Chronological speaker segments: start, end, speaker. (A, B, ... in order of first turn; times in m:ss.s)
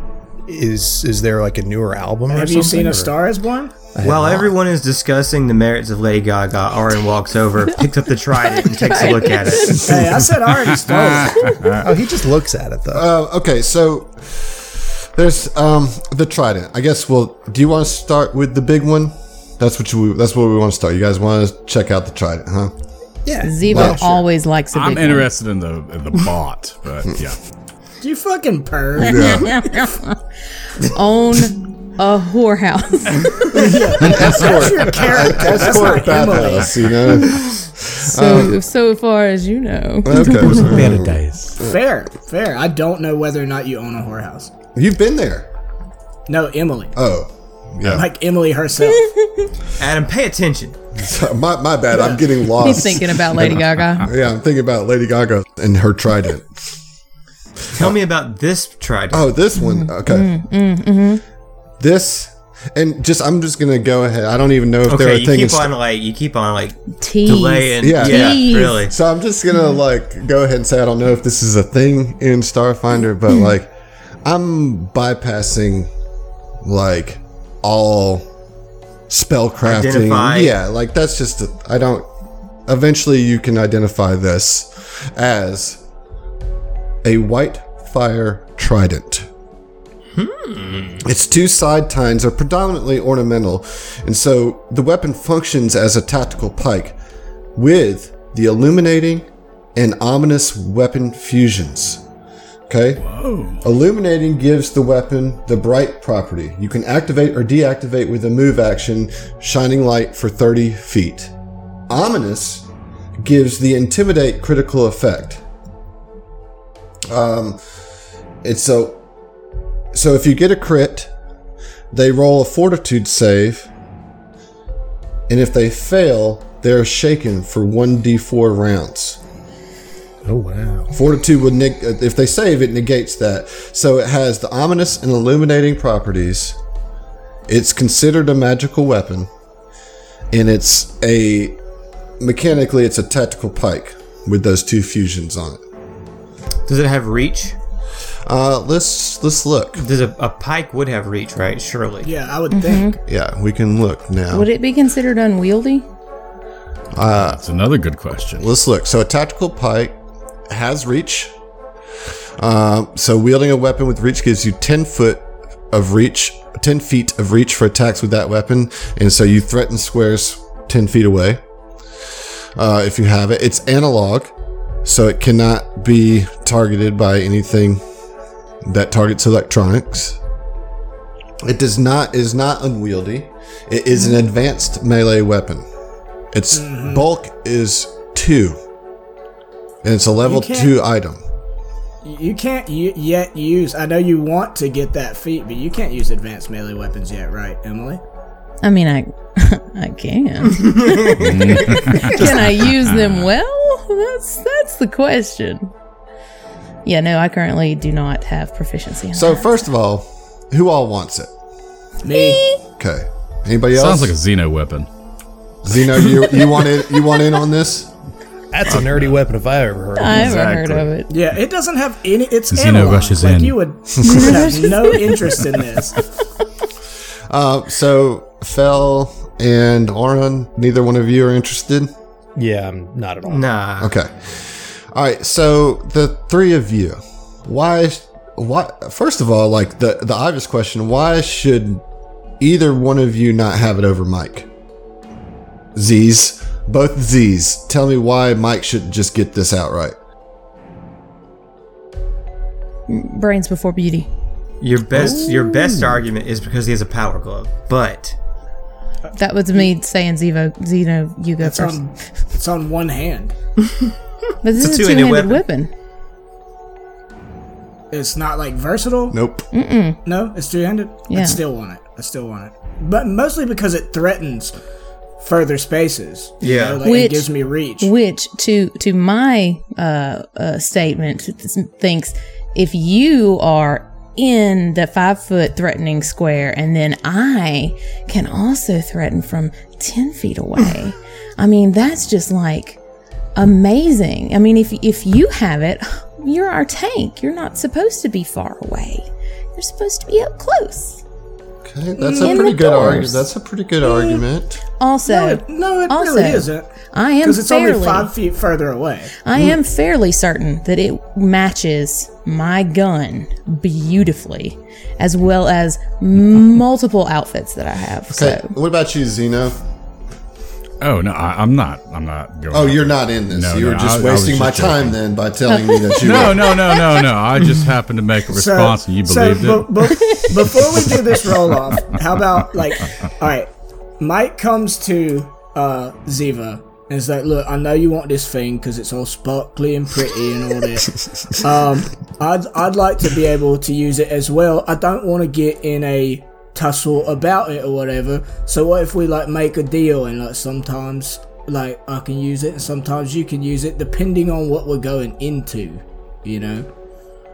0:00.5-0:03.2 A
0:02.3-0:03.8 B
0:04.0-0:04.5 A
0:04.0-0:10.2 C
0:08.4-0:09.9 D
0:09.8-0:11.6 B
0:10.6-0:11.9 E
0:11.7-0:13.1 A
0:12.9-0:22.7 F
0:23.2-0:24.0 A
0:23.4-0:25.3 D
0:23.7-0:24.1 F
0:24.7-0:27.4 E
0:28.0-0:29.5 B
0:29.0-0:30.2 D
0:29.0-0:29.5 F
0:30.8-0:33.8 D
0:33.5-0:36.8 B
0:34.0-0:38.6 F
0:38.0-0:40.7 D
0:40.0-0:41.7 F
0:40.4-0:41.6 E
0:41.6-0:44.5 B
0:44.8-0:45.5 F
0:46.3-0:47.0 B
0:47.0-0:48.0 F
0:47.9-0:49.1 B
0:49.0-0:49.5 D
0:49.8-0:50.8 C
0:51.0-0:56.6 F
0:51.9-0:52.2 B
0:52.5-0:54.1 D
0:57.7-0:58.0 F
0:57.7-0:59.3 C
0:59.1-1:00.3 F
0:59.6-1:01.2 D
1:01.8-1:05.7 F
1:04.8-1:08.9 C
1:07.0-1:08.8 D
1:07.8-1:13.7 F
1:14.2-1:15.9 F
1:16.6-1:18.3 F
1:19.1-1:22.1 F
1:19.6-1:20.5 C
1:22.7-1:25.8 F
1:27.0-1:29.3 F
1:30.1-1:31.0 C
1:31.0-1:37.0 F
1:37.6-1:42.0 F
1:42.7-1:43.0 F
1:43.0-1:43.6 E
1:43.6-1:51.3 F
1:51.9-1:52.7 F
1:53.2-1:55.4 F
1:57.1-1:57.6 F
1:58.4-1:59.0 F
1:59.9-2:01.1 F
2:01.9-2:03.7 F
2:05.3-2:09.2 F
2:10.2-2:10.9 A
2:10.9-2:16.6 F
2:17.5-2:19.3 F
2:20.3-2:21.6 F
2:22.2-2:25.6 F
2:26.6-2:27.6 C
2:28.2-2:29.8 F
2:29.8-2:32.1 C
2:32.0-2:33.0 B
2:32.5-2:33.0 D
2:33.1-2:34.5 F
2:34.3-2:35.8 D
2:37.0-2:37.4 F
2:37.2-2:38.5 E
2:38.4-2:40.0 F
2:40.5-2:41.3 F
2:42.4-2:51.4 F
2:52.6-2:54.3 F
2:54.8-2:57.8 F
2:58.6-3:00.2 F
3:01.4-3:05.6 F
3:06.3-3:08.6 F
3:06.5-3:07.0 B
3:09.8-3:11.2 F
3:10.2-3:10.7 B
3:12.0-3:18.0 B
3:18.6-3:25.7 D
3:21.1-3:23.2 E
3:26.8-3:29.4 D
3:29.1-3:31.3 F
3:32.0-3:32.4 B
3:32.1-3:32.6 D
3:32.8-3:34.1 F
3:33.7-3:34.9 E
3:35.6-3:37.9 F
3:38.5-3:40.6 A
3:38.7-3:39.1 E
3:40.0-3:41.1 D
3:40.1-3:40.9 E
3:41.1-3:46.0 B
3:42.5-3:43.6 E
3:44.0-3:45.2 D
3:47.3-3:51.9 F
3:52.4-3:53.5 A
3:53.3-3:54.0 C
3:53.8-4:01.8 F
4:02.4-4:04.5 F
4:05.8-4:10.0 F
4:12.9-4:14.1 D
4:14.6-4:18.1 C
4:19.1-4:21.8 D
4:21.4-4:23.3 B
4:24.4-4:25.7 D
4:24.5-4:25.4 C
4:27.9-4:29.2 B
4:29.1-4:29.5 F
4:29.5-4:30.0 D
4:30.0-4:34.5 B
4:31.1-4:31.4 D
4:35.2-4:37.9 B
4:36.4-4:36.8 C
4:36.8-4:37.3 D
4:37.8-4:52.8 D
4:53.4-5:01.0 D
5:01.6-5:04.6 F
5:02.0-5:03.0 B
5:02.2-5:03.3 D
5:04.8-5:08.1 D
5:05.0-5:06.7 B
5:07.2-5:09.1 B
5:09.2-5:18.5 D
5:18.1-5:19.6 F
5:20.8-5:24.9 E
5:22.5-5:26.6 F
5:25.5-5:26.8 D
5:26.0-5:30.5 E
5:28.3-5:56.7 B